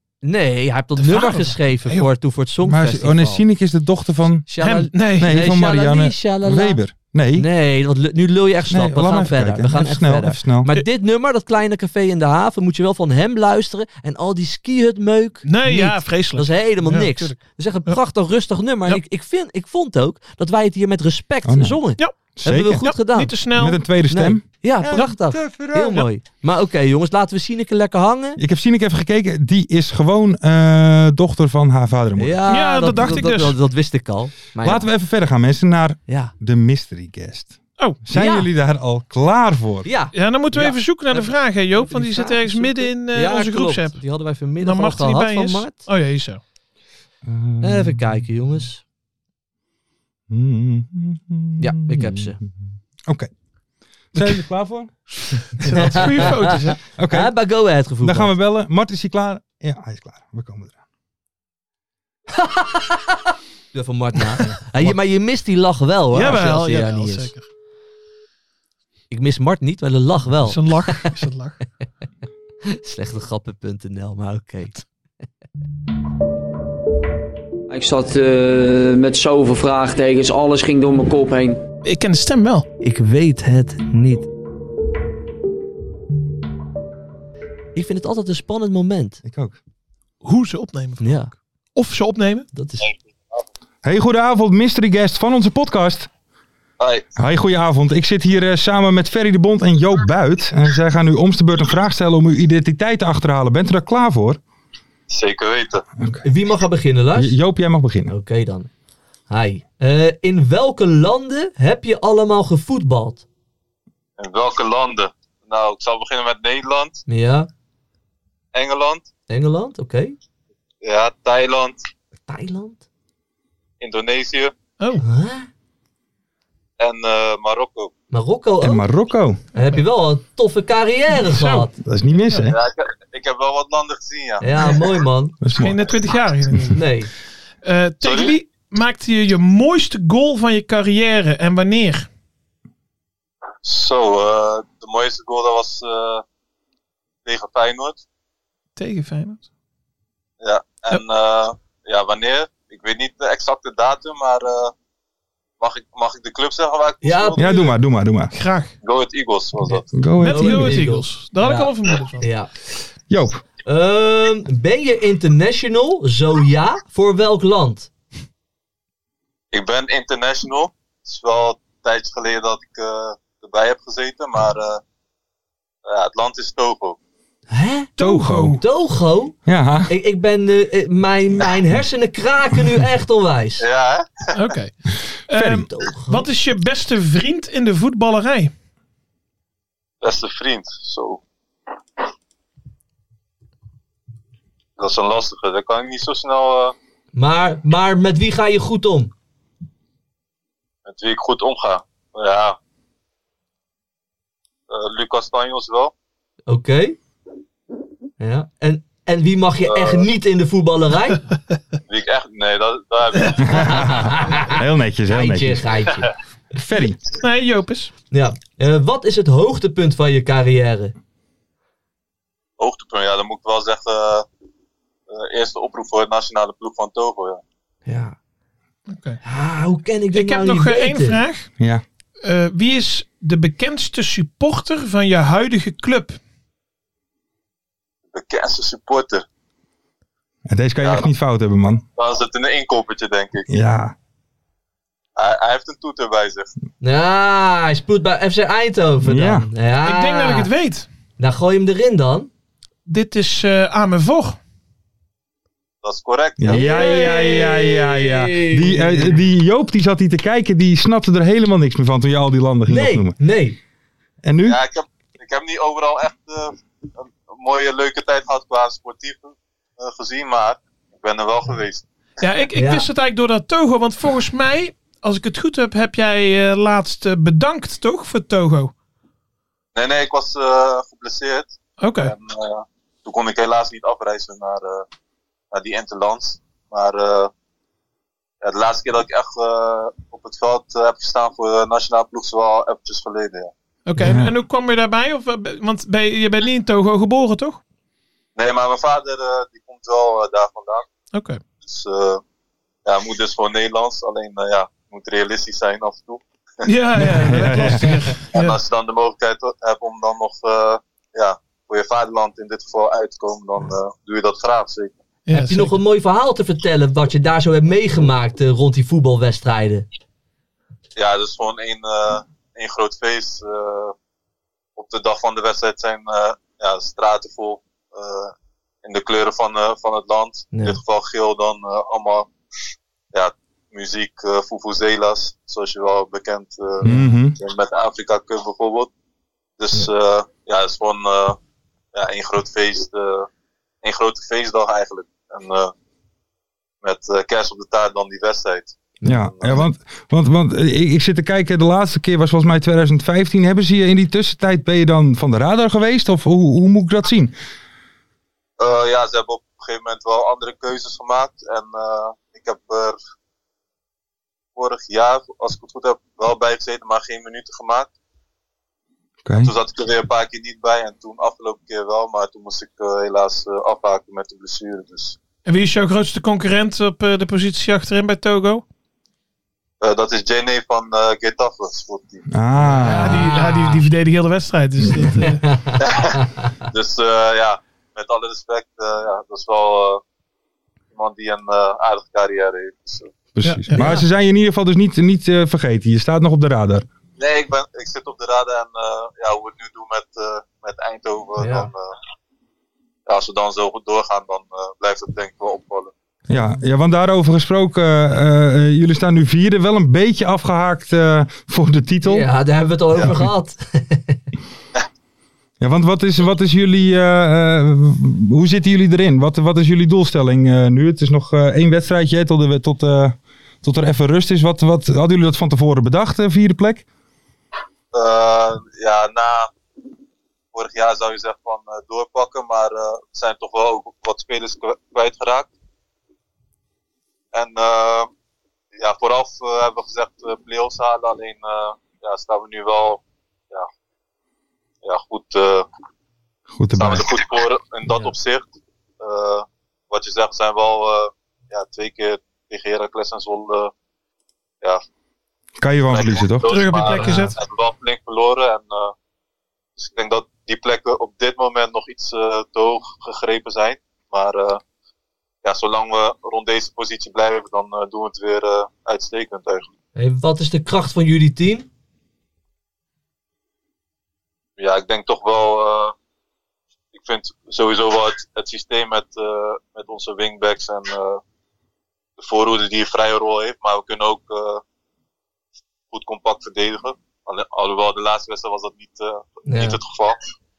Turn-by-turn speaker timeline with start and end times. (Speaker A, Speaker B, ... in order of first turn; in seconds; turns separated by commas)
Speaker A: 0.2-3.4, Speaker B: 1.0-2.1, Speaker C: 2.6-4.5, Speaker A: 4.5-6.8, Speaker B: 4.6-5.3, Speaker C: 5.0-7.5, Speaker A: 7.3-23.4, Speaker C: 8.7-10.7, Speaker B: 15.4-18.0, Speaker C: 21.4-22.9, Speaker B: 22.8-23.8, Speaker C: 23.5-26.0, Speaker A: 24.1-28.4, Speaker B: 24.9-25.2, Speaker C: 28.4-32.4, Speaker A: 32.2-34.9, Speaker B: 32.5-33.6, Speaker C: 34.6-39.9, Speaker A: 36.1-36.3, Speaker A: 38.1-38.5, Speaker A: 39.9-45.9, Speaker B: 40.1-44.0, Speaker B: 44.6-46.4, Speaker C: 47.2-48.3, Speaker A: 47.6-48.8, Speaker C: 50.3-52.5, Speaker A: 51.6-52.4, Speaker C: 54.1-56.3, Speaker A: 55.7-56.6, Speaker B: 55.7-56.8, Speaker C: 57.0-57.3, Speaker A: 57.1-58.3, Speaker C: 58.0-60.8, Speaker A: 62.4-63.2, Speaker A: 63.7-67.3, Speaker B: 66.1-67.5, Speaker A: 69.1-71.1, Speaker B: 70.4-71.6, Speaker A: 72.7-74.8, Speaker D: 77.7-81.6, Speaker B: 81.8-82.7, Speaker A: 82.8-84.3, Speaker A: 87.8-89.2, Speaker C: 89.2-89.6, Speaker B: 90.2-92.5, Speaker A: 91.0-91.3, Speaker A: 92.5-92.9, Speaker C: 93.8-96.1, Speaker E: 96.8-97.1, Speaker C: 97.2-104.4, Speaker E: 105.1-105.9, Speaker C: 106.0-106.2, Speaker A: 106.2-107.3, Speaker C: 107.2-108.1, Speaker A: 108.1-108.7, Speaker A: 109.3-113.2, Speaker E: 114.2-117.0, Speaker A: 117.1-117.5, Speaker E: 118.5-119.1, Speaker A: 119.3-120.2, Speaker E: 120.8-121.8, Speaker A: 122.3-122.8, Speaker E: 123.8-124.5, Speaker A: 125.0-125.5, Speaker E: 126.8-127.9, Speaker A: 128.1-128.8, Speaker C: 128.6-129.4, Speaker A: 129.5-131.7, Speaker B: 131.2-131.7, Speaker C: 131.8-132.6, Speaker E: 132.5-134.8, Speaker A: 134.4-135.4, Speaker C: 135.4-135.8, Speaker B: 135.6-136.8, Speaker A: 136.7-137.1, Speaker B: 137.6-142.1, Speaker E: 138.0-138.4, Speaker E: 143.6-146.2, Speaker E: 147.2-148.0, Speaker B: 148.8-149.4, Speaker E: 150.4-154.7, Speaker E: 155.6-157.7, Speaker A: 157.0-157.6, Speaker C: 157.4-158.3, Speaker B: 158.3-158.7, Speaker E: 158.8-159.9, Speaker C: 159.9-160.9, Speaker B: 160.2-162.3, Speaker A: 160.2-162.5, Speaker C: 163.1-163.4, Speaker A: 163.6-167.9, Speaker E: 169.5-174.8, Speaker E: 175.9-177.0, Speaker A: 177.5-177.9, Speaker B: 178.0-178.6, Speaker C: 178.0-178.6, Speaker A: 178.6-179.4, Speaker C: 179.5-179.9, Speaker A: 179.9-183.6, Speaker E: 183.6-184.4, Speaker B: 184.3-184.7, Speaker C: 185.3-185.7, Speaker B: 185.3-188.5, Speaker A: 185.5-186.3, Speaker E: 190.0-191.2, Speaker E: 194.8-196.8, Speaker A: 197.2-199.1, Speaker E: 200.8-202.6, Speaker E: 204.7-205.9, Speaker A: 206.5-207.0, Speaker A: 208.2-211.2, Speaker E: 209.6-210.1, Speaker E: 211.9-214.0, Speaker A: 213.6-216.1, Speaker C: 213.6-215.7, Speaker C: 216.5-217.0, Speaker B: 217.1-217.9, Speaker A: 218.1-220.9, Speaker E: 222.6-224.3, Speaker E: 225.1-227.4, Speaker A: 227.9-228.2, Speaker B: 228.9-229.2, Speaker A: 229.2-231.2, Speaker B: 230.1-231.5, Speaker B: 232.2-236.2, Speaker E: 238.1-239.2, Speaker C: 240.5-241.8, Speaker E: 240.8-241.1, Speaker E: 242.0-243.5, Speaker C: 243.5-243.9, Speaker E: 245.2-246.5, Speaker A: 246.8-250.5, Speaker C: 249.0-249.5, Speaker B: 249.8-250.9, Speaker A: 251.2-252.3, Speaker B: 252.9-254.4, Speaker E: 255.8-256.7, Speaker C: 256.4-263.2, Speaker A: 256.5-259.2, Speaker B: 256.8-257.4, Speaker A: 262.7-263.6, Speaker C: 264.2-264.6, Speaker E: 264.5-271.8, Speaker B: 272.2-278.7, Speaker A: 272.6-272.9, Speaker E: 279.8-284.9, Speaker B: 281.8-282.1, Speaker E: 285.5-287.3, Speaker E: 288.4-293.5, Speaker B: 293.9-297.6, Speaker C: 294.0-294.3, Speaker E: 298.4-300.9, Speaker B: 301.1-301.4, Speaker E: 301.6-302.2, Speaker E: 302.9-306.2, Speaker B: 306.6-308.6, Speaker C: 307.0-308.0, Speaker E: 308.3-314.9, Speaker B: 315.3-315.8, Speaker A: 315.3-319.9, Speaker E: 321.0-323.9, Speaker E: 324.8-332.3, Speaker A: 330.5-330.8, Speaker E: 333.1-338.9, Speaker C: 336.8-337.4, Speaker E: 339.6-341.4, Speaker E: 341.9-343.3, Speaker E: 343.8-345.7, Speaker E: 346.8-348.8, Speaker C: 349.1-357.3, Speaker E: 349.4-349.6, Speaker E: 358.6-363.0, Speaker E: 364.6-367.9, Speaker C: 369.2-369.5, Speaker E: 369.4-375.2, Speaker B: 375.5-378.6, Speaker E: 379.8-382.2, Speaker C: 382.3-383.4, Speaker B: 382.8-385.5, Speaker A: 382.9-383.8, Speaker A: 385.2-385.8, Speaker E: 385.8-390.0, Speaker E: 390.9-393.1, Speaker C: 393.4-396.9, Speaker B: 393.4-393.9, Speaker A: 393.7-394.1, Speaker E: 397.2-401.9, Speaker A: 401.4-401.7, Speaker E: 403.1-405.9, Speaker C: 406.3-412.3, Speaker A: 412.1-414.2, Speaker C: 413.0-413.2, Speaker C: 415.6-426.9, Speaker E: 427.9-429.5, Speaker E: 430.5-435.5, Speaker E: 437.3-438.1, Speaker E: 438.8-443.7, Speaker E: 444.8-445.7, Speaker C: 446.5-447.1, Speaker E: 446.7-453.7, Speaker A: 447.9-448.1, Speaker C: 455.6-456.5, Speaker E: 455.9-458.9, Speaker B: 456.5-457.4, Speaker A: 457.0-457.3, Speaker E: 459.8-464.6, Speaker E: 465.4-469.7, Speaker A: 470.0-471.7, Speaker E: 474.6-475.9, Speaker E: 476.9-481.2, Speaker E: 482.2-484.6, Speaker E: 485.9-490.2, Speaker A: 489.5-489.8